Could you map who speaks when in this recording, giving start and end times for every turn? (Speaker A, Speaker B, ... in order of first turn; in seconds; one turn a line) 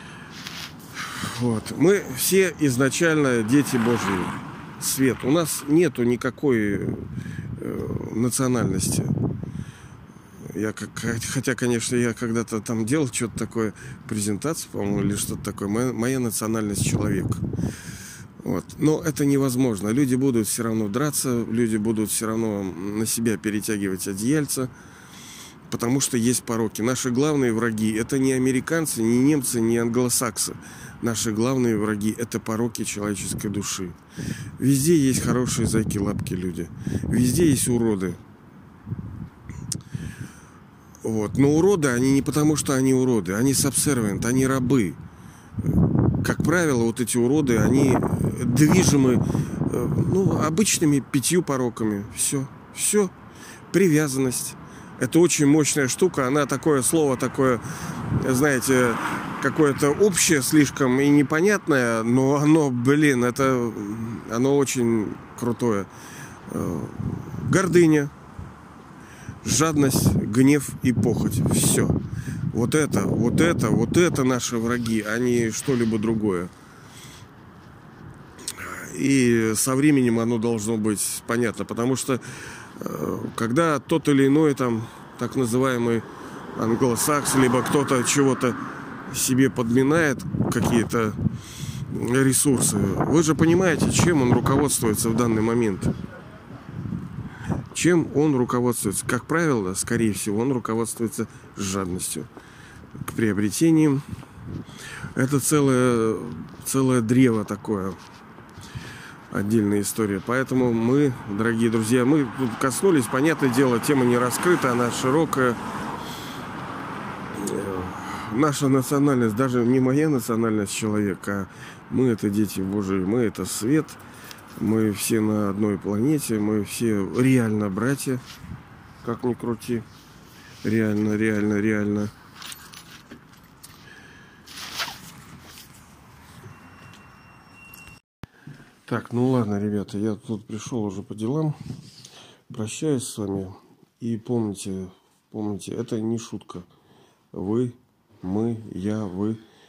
Speaker A: 1.0-9.1
Speaker A: 10.4-17.4
Speaker A: 18.4-24.7
Speaker A: 25.7-34.0
Speaker A: 34.6-38.2
Speaker A: 41.0-45.0
Speaker A: 46.2-53.1
Speaker A: 53.7-65.9
Speaker A: 66.5-68.1
Speaker A: 69.4-72.0
Speaker A: 72.5-76.5
Speaker A: 78.5-91.2
Speaker A: 91.9-95.9
Speaker A: 97.7-102.3
Speaker A: 103.0-104.0
Speaker A: 105.1-108.0
Speaker A: 109.3-115.6
Speaker A: 117.3-124.0
Speaker A: 124.6-128.2
Speaker A: 129.0-129.8
Speaker A: 130.6-132.1
Speaker A: 138.8-141.6
Speaker A: 142.5-146.7
Speaker A: 147.3-149.4